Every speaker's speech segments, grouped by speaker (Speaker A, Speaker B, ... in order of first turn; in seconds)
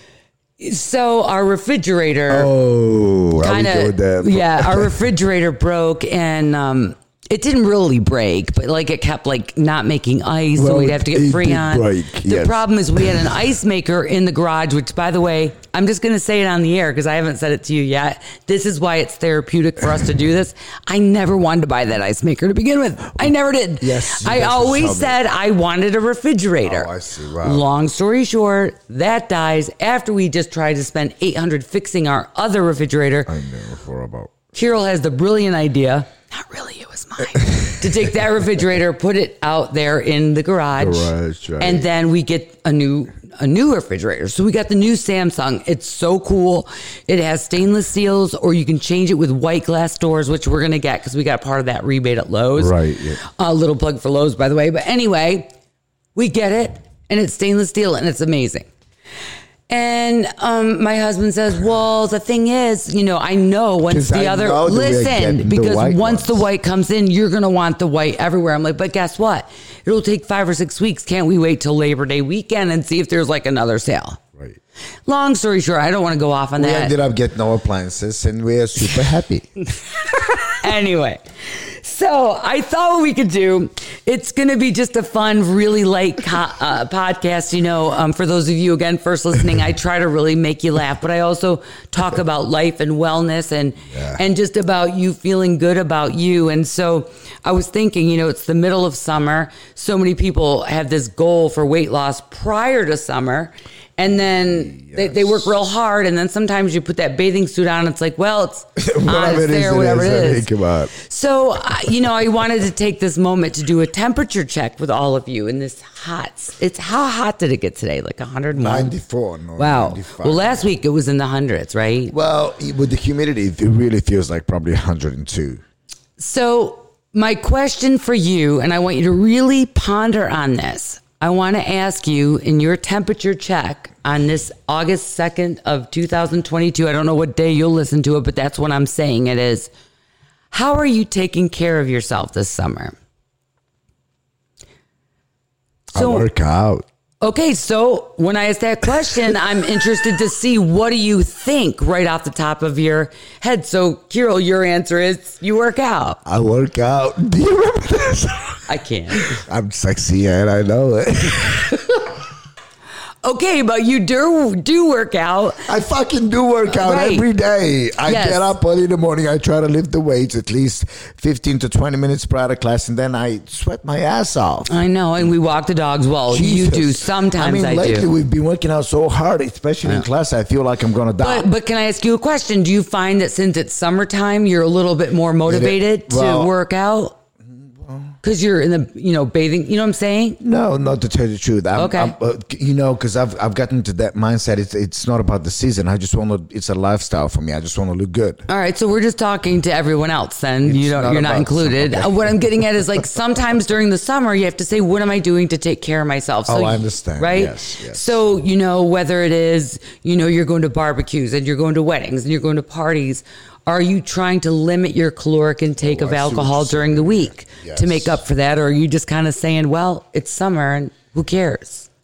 Speaker A: 0.6-2.5, 3.4-26.9, 27.4-33.3, 34.5-55.5, 56.1-58.7, 59.7-74.2, 75.0-76.9, 80.2-81.2, 81.8-118.9, 119.6-122.1, 126.2-139.7, 140.5-142.9, 145.9-146.3, 147.2-156.2, 158.7-159.4, 163.2-165.7, 166.7-167.2, 168.1-168.5, 174.7-178.1, 181.2-187.2, 188.2-190.4, 191.7-192.1, 198.5-221.9
Speaker B: 2.3-4.9, 10.6-13.3, 23.8-25.2, 26.6-27.6, 33.2-34.5, 37.3-37.9, 40.8-41.9, 52.5-53.2, 63.9-66.5, 76.6-79.5, 93.9-94.2, 104.3-105.5, 108.8-110.9, 118.5-120.7, 122.1-125.6, 145.9-146.8, 156.2-162.2, 165.6-174.7, 176.3-181.5, 185.5-186.5, 187.7-188.2, 190.4-198.4, 200.6-202.9, 206.5-208.1, 215.8-218.2